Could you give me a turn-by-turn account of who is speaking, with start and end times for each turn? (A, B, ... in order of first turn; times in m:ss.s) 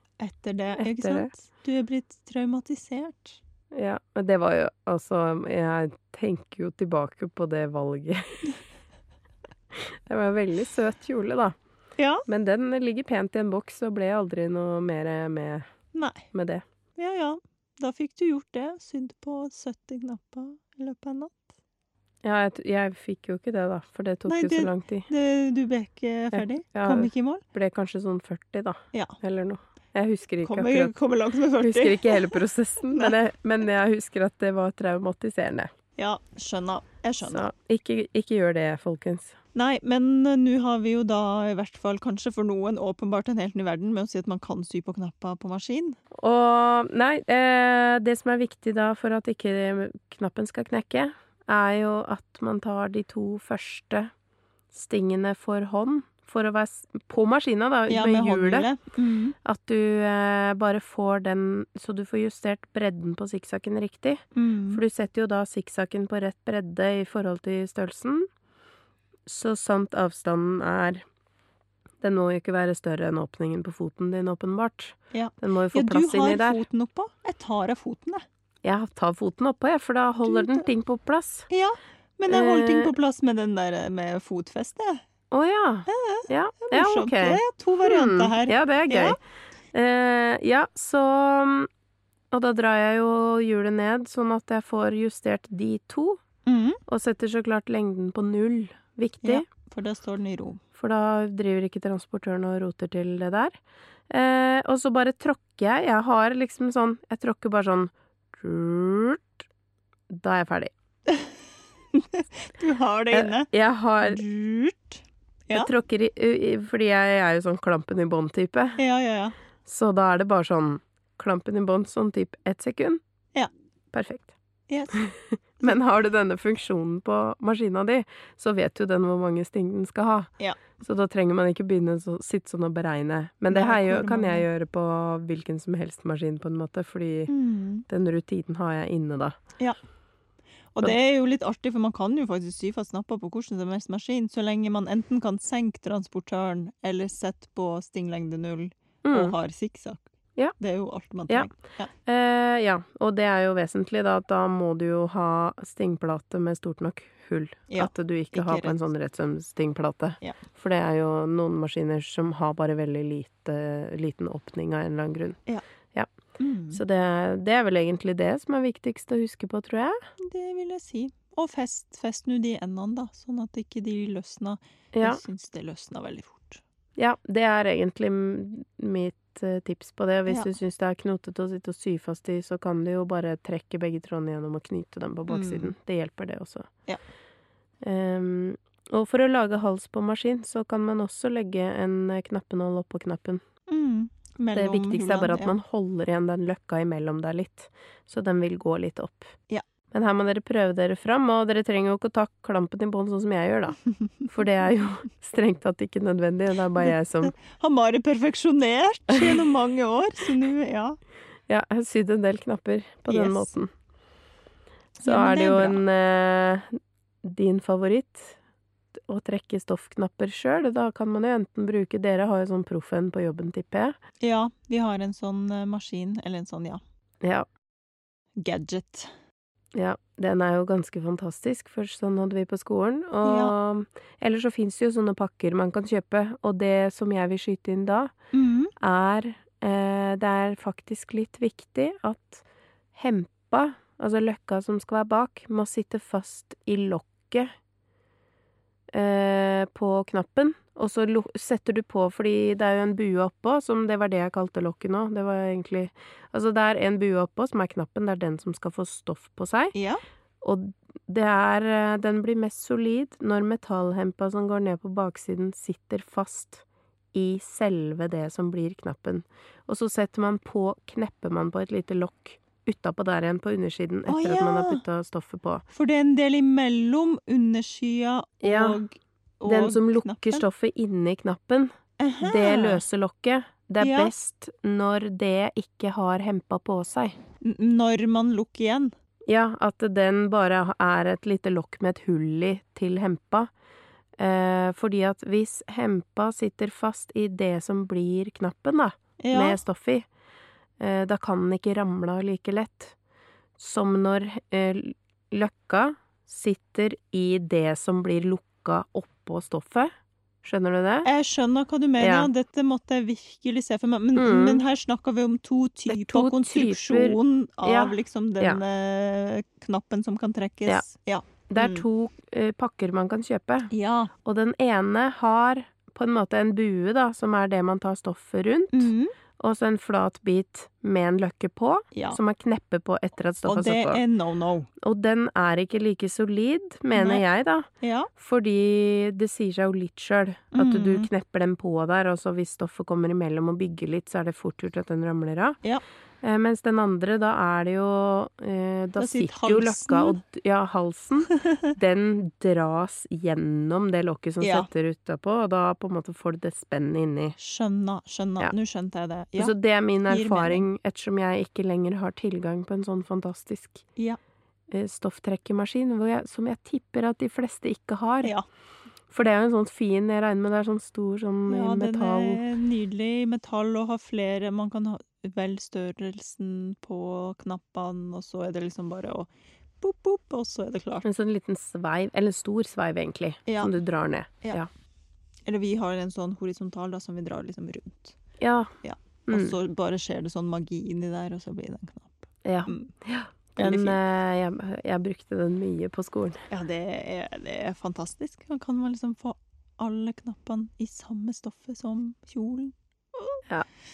0:00.2-0:03.4 A
0:00.8-0:01.3 B
0:03.7-0:08.5 B
0:09.7-0:11.6 B
0:12.0-0:12.2 A
0:12.3-0:15.7 B
0:15.9-0:16.3 A
0:16.3-0:16.6 B
0:17.0-0:21.5 A
0:22.2-0:25.1 B
0:24.3-0:27.4 A
0:26.3-0:30.9 B
0:30.4-0:32.4 A
0:31.6-0:35.7 B
0:36.0-0:37.5 A
0:37.2-0:39.4 B
0:39.6-0:46.0 A
0:46.1-0:54.1 B
0:54.7-0:58.7 B
0:57.9-0:59.4 A
0:59.4-1:08.3 B
1:04.4-1:04.8 A
1:09.3-1:11.0 B
1:12.0-1:16.6 B
1:15.1-1:18.2 A
1:18.6-1:21.5 B
1:20.2-1:20.7 A
1:21.5-1:25.0 A
1:22.3-1:22.9 B
1:25.3-1:29.2 B
1:25.9-1:29.2 A
1:29.7-1:31.7 B
1:32.3-1:36.2 B
1:36.5-1:36.8 A
1:36.9-1:39.4 B
1:39.2-1:40.6 A
1:40.8-1:49.4 B
1:50.1-1:50.7 B
1:51.9-1:53.5 A
1:53.1-1:54.2 B
1:54.0-1:55.7 A
1:55.5-1:58.8 B
1:58.8-1:59.4 A
1:59.7-2:03.0 B
2:03.9-2:04.3 B
2:04.7-2:05.1 A
2:04.9-2:17.3 B
2:13.5-2:14.5 A
2:17.3-2:17.9 A
2:17.9-2:19.4 B
2:20.7-2:31.9 A
2:29.0-2:29.3 B
2:32.0-2:45.4 B
2:37.7-2:38.8 A
2:46.4-2:46.8 A
2:46.7-2:50.0 B
2:50.2-2:56.6 A
2:54.9-2:55.2 B
2:57.0-3:06.7 B
3:00.3-3:00.5 A
3:05.3-3:05.7 A
3:07.8-3:13.4 B
3:13.7-3:15.6 A
3:14.5-3:19.3 B
3:19.9-3:27.3 B
3:26.8-3:31.0 A
3:29.1-3:29.4 B
3:31.5-3:33.7 B
3:33.1-3:33.5 A
3:35.0-3:38.4 B
3:35.0-3:35.8 A
3:39.0-3:44.0 B
3:44.2-3:46.8 A
3:47.2-3:47.5 B
3:48.4-3:49.1 A
3:49.8-3:58.1 B
3:53.2-3:53.5 A
3:58.3-3:58.7 A
3:58.8-4:07.5 B
4:08.9-4:19.7 B
4:19.7-4:20.0 A
4:20.4-4:35.6 B
4:34.1-4:34.8 A
4:35.7-4:40.5 A
4:38.4-4:38.8 B
4:39.4-4:47.2 B
4:42.0-4:42.8 A
4:43.8-4:44.1 A
4:47.4-4:48.9 A
4:49.3-4:53.5 B
4:54.2-5:00.1 B
4:59.2-4:59.6 A
5:00.8-5:03.0 B
5:03.6-5:09.9 B
5:10.4-5:11.1 B
5:11.0-5:21.9 A
5:12.0-5:12.3 B
5:14.2-5:14.6 B
5:15.9-5:18.6 B
5:21.5-5:23.7 B
5:23.7-5:24.1 A
5:24.2-5:34.0 B
5:28.7-5:29.1 A
5:31.9-5:32.2 A
5:33.4-5:34.7 A
5:34.8-5:45.6 B
5:37.0-5:37.2 A
5:37.8-5:38.1 A
5:40.5-5:41.1 A
5:46.2-5:57.4 B
5:49.0-5:50.2 A
5:51.4-5:51.7 A
5:54.4-5:54.7 A
5:57.4-5:59.5 A
5:59.4-6:03.9 B
6:00.1-6:00.6 A
6:04.7-6:08.3 B
6:09.1-6:12.4 B
6:11.5-6:19.3 A
6:19.8-6:21.0 A
6:21.0-6:24.7 B
6:23.5-6:23.8 A
6:25.5-6:28.2 A
6:28.4-6:28.7 B
6:28.8-6:32.9 A
6:29.3-6:29.6 B
6:32.4-6:36.4 B
6:33.6-6:34.0 A
6:36.5-6:43.4 A